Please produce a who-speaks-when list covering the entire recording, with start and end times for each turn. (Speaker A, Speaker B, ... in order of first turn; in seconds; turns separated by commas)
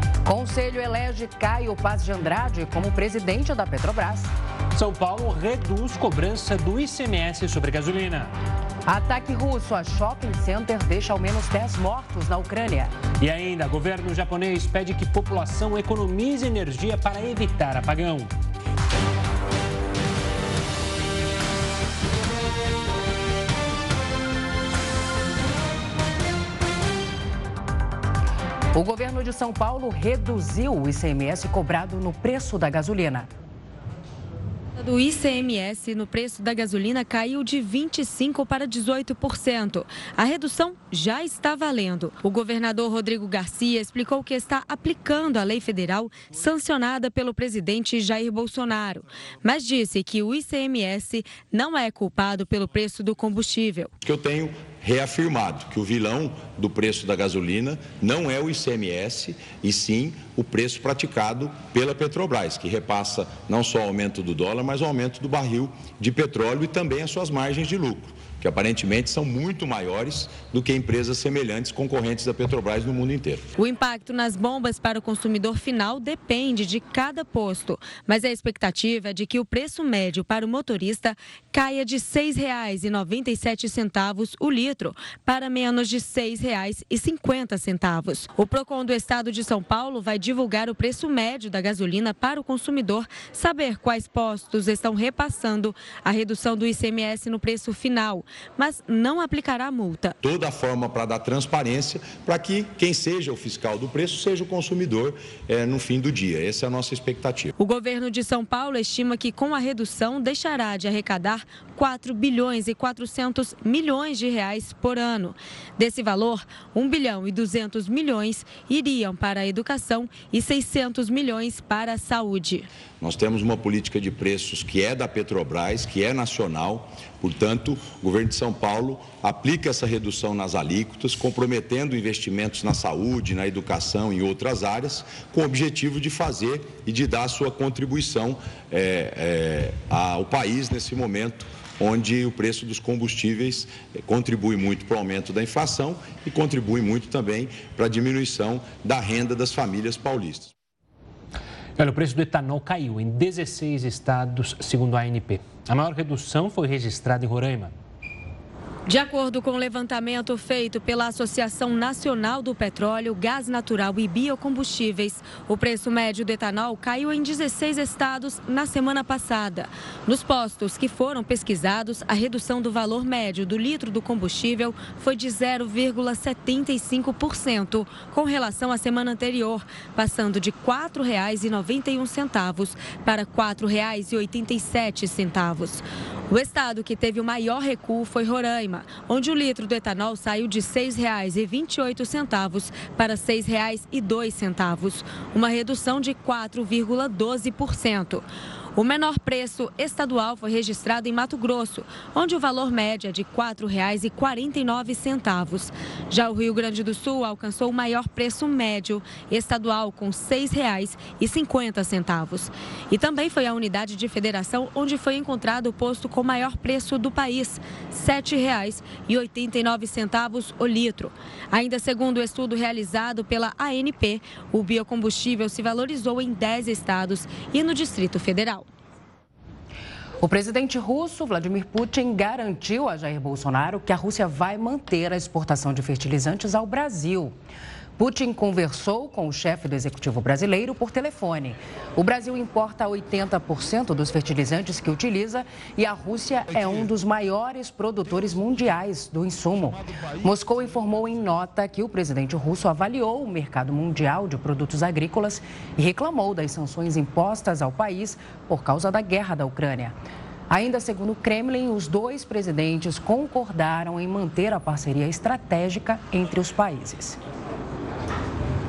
Speaker A: 0.2-4.3, Speaker B: 4.7-8.3, Speaker A: 8.8-12.9, Speaker B: 13.2-18.3, Speaker A: 28.7-33.3, Speaker C: 34.8-53.9, Speaker D: 54.0-73.4, Speaker C: 73.6-100.2, Speaker D: 100.2-107.5, Speaker C: 107.6-122.7, Speaker D: 123.0-150.5, Speaker B: 151.8-157.7, Speaker C: 158.8-228.7, Speaker A: 230.2-237.3, Speaker A: 238.0-259.9, Speaker A: 260.5-267.2